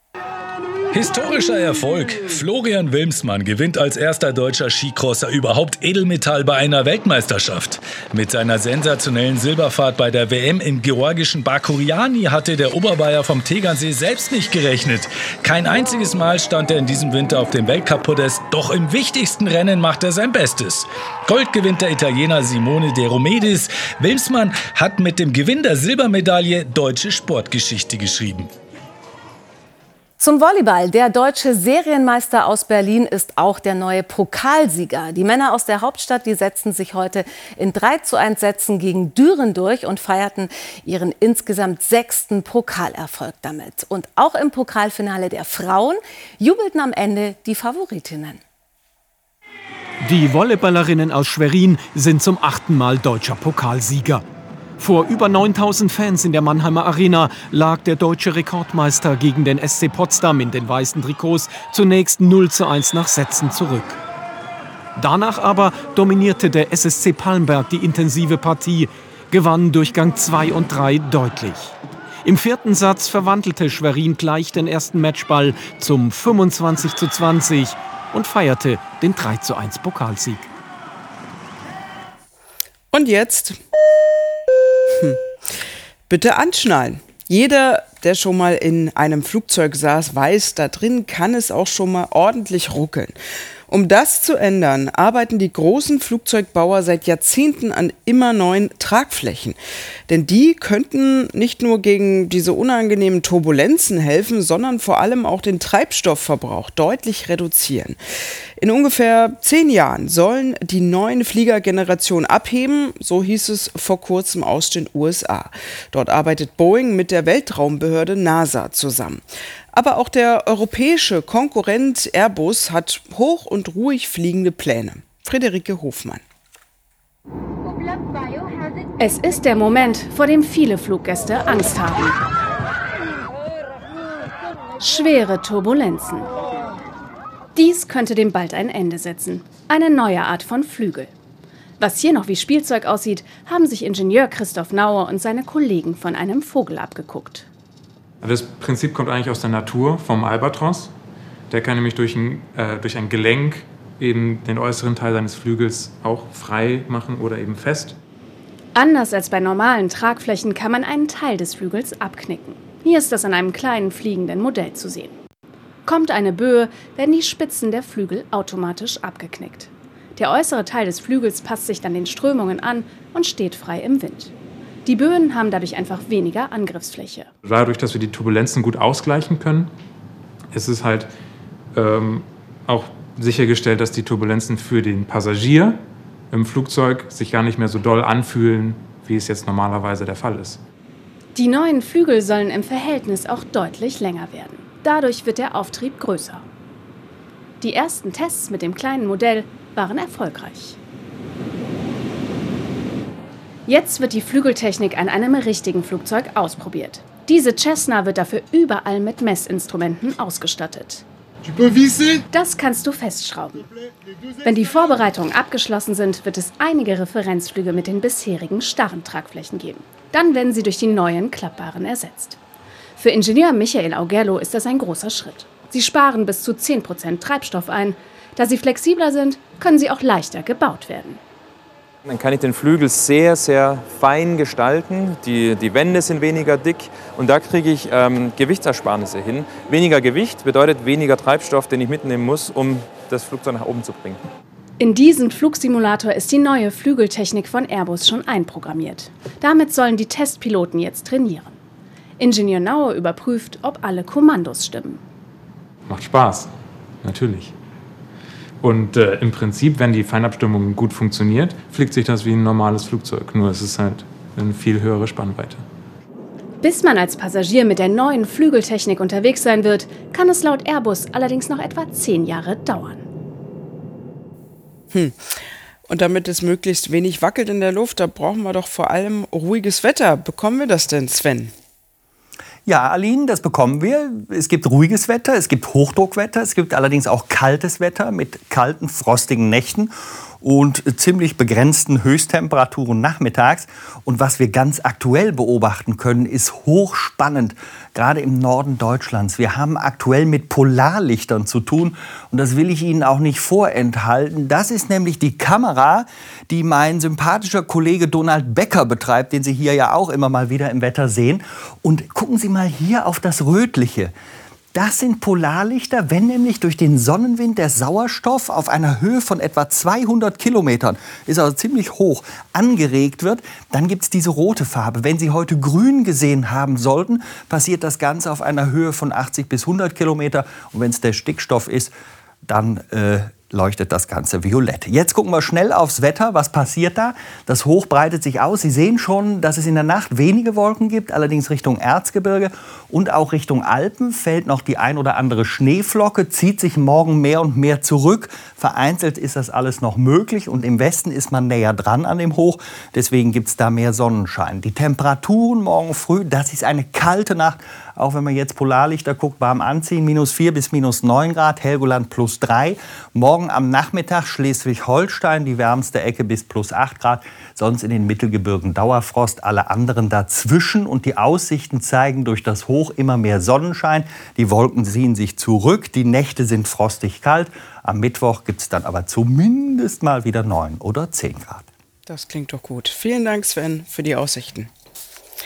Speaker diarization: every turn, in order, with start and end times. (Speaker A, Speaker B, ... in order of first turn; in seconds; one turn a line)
Speaker A: 0.9-28.5
Speaker B: 30.2-48.4
Speaker C: 50.0-54.2
Speaker C: 54.8-64.0
Speaker C: 65.0-80.4
Speaker D: 82.9-83.6
Speaker D: 86.1-93.1
Speaker D: 93.7-108.0
Speaker D: 108.6-126.2
Speaker E: 129.0-132.2
Speaker E: 134.8-136.3
Speaker E: 137.6-141.1
Speaker E: 141.8-147.4
Speaker F: 148.2-150.9
Speaker F: 151.5-157.9
Speaker E: 158.7-165.1
Speaker E: 165.8-174.3
Speaker E: 174.8-177.3
Speaker F: 177.4-179.7
Speaker F: 180.5-181.1
Speaker F: 181.7-190.6
Speaker E: 191.3-196.4
Speaker E: 197.6-200.8
Speaker E: 203.7-211.0
Speaker E: 212.3-213.7
Speaker E: 214.4-222.4
Speaker E: 223.0-231.2
Speaker G: 232.0-244.2
Speaker E: 244.8-251.6
Speaker E: 252.2-255.0
Speaker F: 255.9-256.5
Speaker F: 257.0-257.5
Speaker F: 258.6-265.6
Speaker E: 266.6-273.0
Speaker D: 275.9-281.5
Speaker H: 282.6-314.1
Speaker H: 314.7-331.9
Speaker H: 332.5-381.7
Speaker D: 382.1-384.7